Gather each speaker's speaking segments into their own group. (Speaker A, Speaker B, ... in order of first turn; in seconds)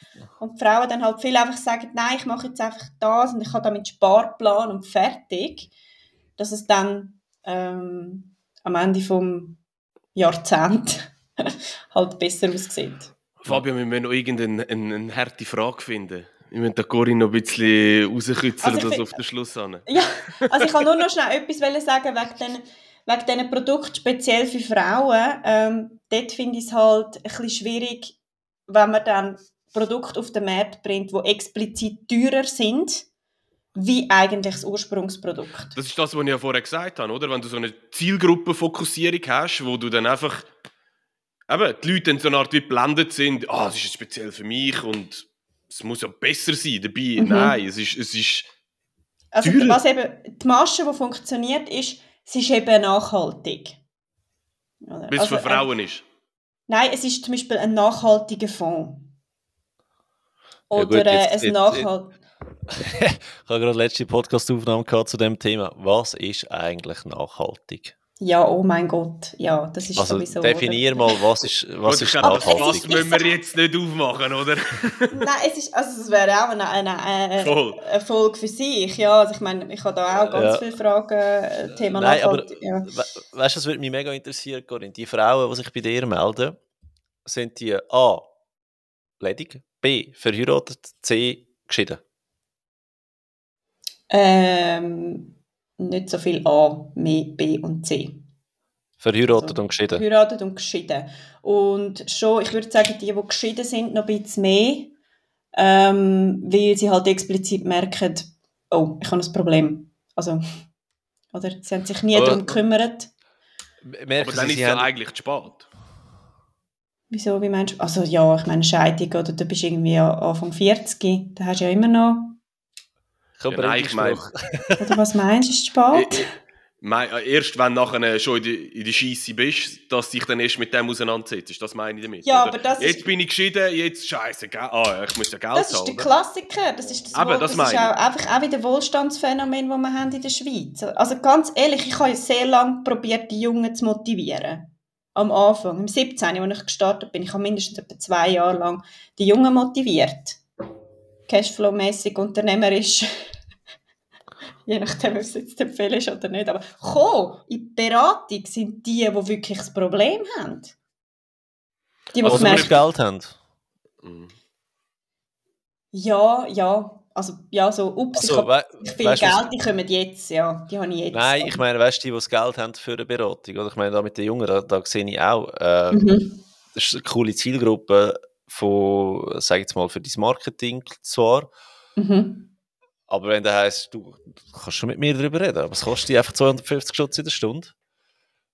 Speaker A: 0.4-5.7, 6.4-9.6, 10.1-13.1, 18.6-19.2, 19.9-28.1, 28.7-33.1, 33.7-35.8, 47.2-47.5, 49.3-53.8, 54.8-55.7, 56.7-59.1, 60.7-62.2, 68.2-71.2, 72.2-73.3, 75.1-82.9, 94.1-98.2, 99.3-104.9, 105.5-110.4, 111.3-113.1, 117.1-122.4, 124.8-126.3, 132.2-133.1, 135.5-150.4, 151.3-153.1, 154.7-160.7, 162.1-162.7, 165.9-171.6, 175.9-176.4, 182.0-182.5
Speaker B: 13.4-19.9, 35.7-40.5, 41.5-48.5, 49.4-49.8, 55.1-56.0, 71.8-75.2, 77.4-77.8, 114.2-115.7, 123.5-124.2, 125.9-126.3, 126.8-136.1, 137.1-137.9, 162.2-162.8, 164.0-164.3
Speaker C: 60.7-61.9, 62.7-67.9, 70.0-72.9, 80.3-80.6, 81.9-86.6, 87.2-88.3, 89.2-92.0, 99.0-100.0, 112.1-112.5, 113.8-114.9, 123.4-125.0, 162.2-163.3, 168.2-169.5, 171.1-176.1, 176.7-181.5, 183.1-187.7